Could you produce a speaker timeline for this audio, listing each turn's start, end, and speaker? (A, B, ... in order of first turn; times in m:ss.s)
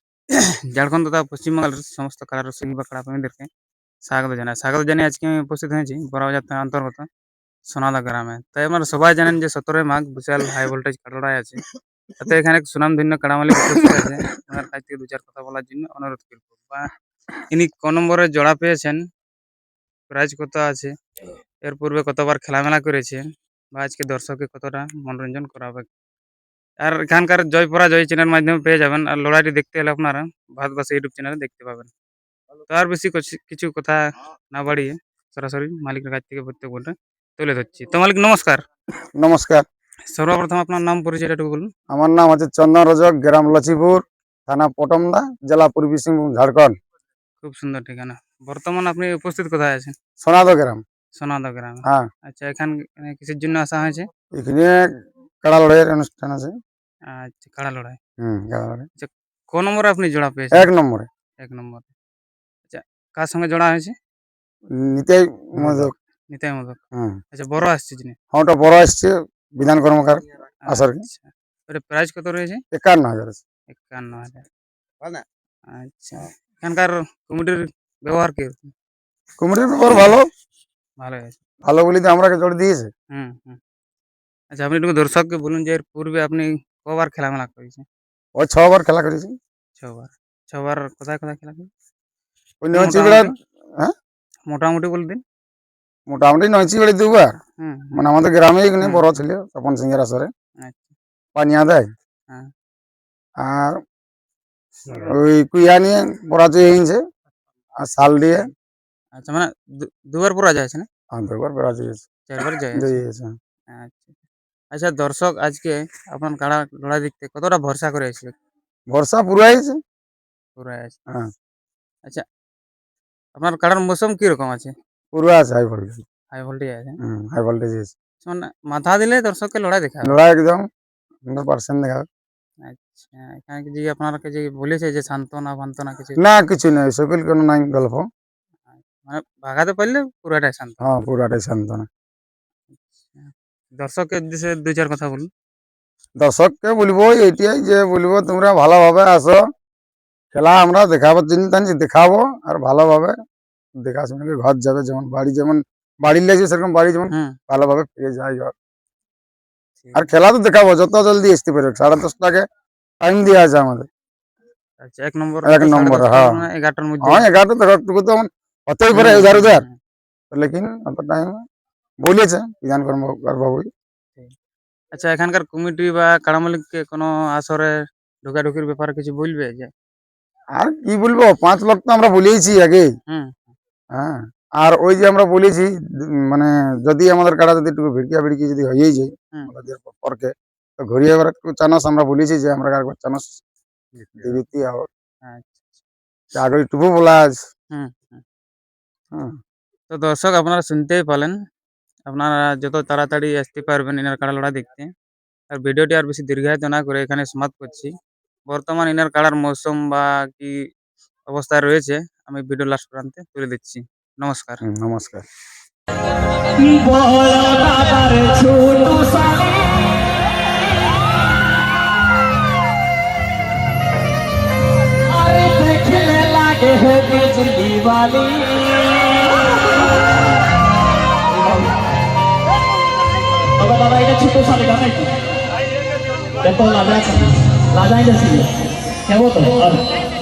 0:00.3-0:03.5 A
0:04.1-0:07.1 A
0:07.7-0:11.6 A
0:12.2-0:16.9 A
0:13.8-0:14.1 B
0:17.5-0:19.0 A
0:20.1-0:20.9 A
0:21.6-0:25.9 A
0:26.8-0:31.9 A
0:32.7-0:38.6 A
0:39.2-0:39.6 B
0:40.1-0:41.7 A
0:41.9-0:46.8 B
0:47.4-0:49.9 A
0:50.2-0:50.8 B
0:51.2-0:54.1 A
0:54.4-0:54.9 B
0:55.4-0:56.5 B
0:57.1-0:58.0 A
0:58.2-0:58.9 B
0:59.0-1:00.7 A
1:00.5-1:01.1 B
1:01.4-1:01.9 A
1:02.7-1:03.9 A
1:04.8-1:05.9 B
1:05.6-1:06.8 A
1:07.3-1:08.2 A
1:08.3-1:11.1 B
1:10.7-1:12.6 A
1:12.7-1:13.4 B
1:13.7-1:14.5 A
1:15.7-1:18.7 A
1:19.4-1:20.2 B
1:21.0-1:21.4 A
1:21.6-1:22.9 B
1:23.1-1:23.6 A
1:24.5-1:27.8 A
1:28.4-1:29.3 B
1:29.8-1:31.7 A
1:32.6-1:33.9 B
1:32.7-1:33.3 A
1:34.5-1:35.2 A
1:36.1-1:37.3 B
1:37.6-1:38.0 A
1:38.0-1:40.3 B
1:38.8-1:39.1 A
1:40.6-1:41.0 A
1:41.4-1:41.9 B
1:43.4-1:43.8 B
1:44.9-1:47.0 B
1:47.8-1:48.4 B
1:49.2-1:50.9 A
1:51.1-1:52.1 B
1:52.3-1:53.0 A
1:52.8-1:53.3 B
1:53.7-1:54.1 A
1:54.7-1:58.3 A
1:58.9-1:59.8 B
2:00.6-2:01.0 A
2:03.4-2:04.7 A
2:05.1-2:06.0 B
2:06.3-2:07.0 A
2:07.0-2:07.9 B
2:08.2-2:10.2 A
2:10.0-2:10.6 B
2:11.3-2:12.0 B
2:12.6-2:16.2 A
2:16.2-2:18.0 B
2:18.7-2:20.9 A
2:20.8-2:21.9 B
2:22.7-2:25.3 A
2:26.2-2:29.4 B
2:30.3-2:33.1 B
2:33.8-2:38.5 B
2:39.8-2:40.1 A
2:40.0-2:42.4 B
2:43.0-2:43.9 B
2:44.8-2:47.2 A
2:45.5-2:46.3 B
2:47.1-2:49.6 B
2:48.9-2:49.8 A
2:50.3-2:51.4 B
2:52.0-2:53.7 B
2:54.9-2:57.7 A
2:58.2-2:59.7 A
3:00.6-3:02.9 B
3:03.1-3:03.6 A
3:04.0-3:05.7 B
3:06.3-3:10.3 B
3:10.8-3:13.4 B
3:14.0-3:14.4 A
3:14.2-3:14.9 B
3:15.2-3:15.8 A
3:16.4-3:17.4 B
3:17.7-3:18.2 A
3:19.9-3:21.4 A
3:22.1-3:24.9 A
3:25.5-3:27.9 A
3:28.5-3:30.6 A
3:31.3-3:34.6 A
3:34.6-3:35.2 B
3:36.6-3:40.0 C
3:45.1-3:49.5 C
3:51.3-3:51.7 C
3:53.6-3:55.1 C
3:56.4-3:58.5 C
3:59.1-3:59.8 C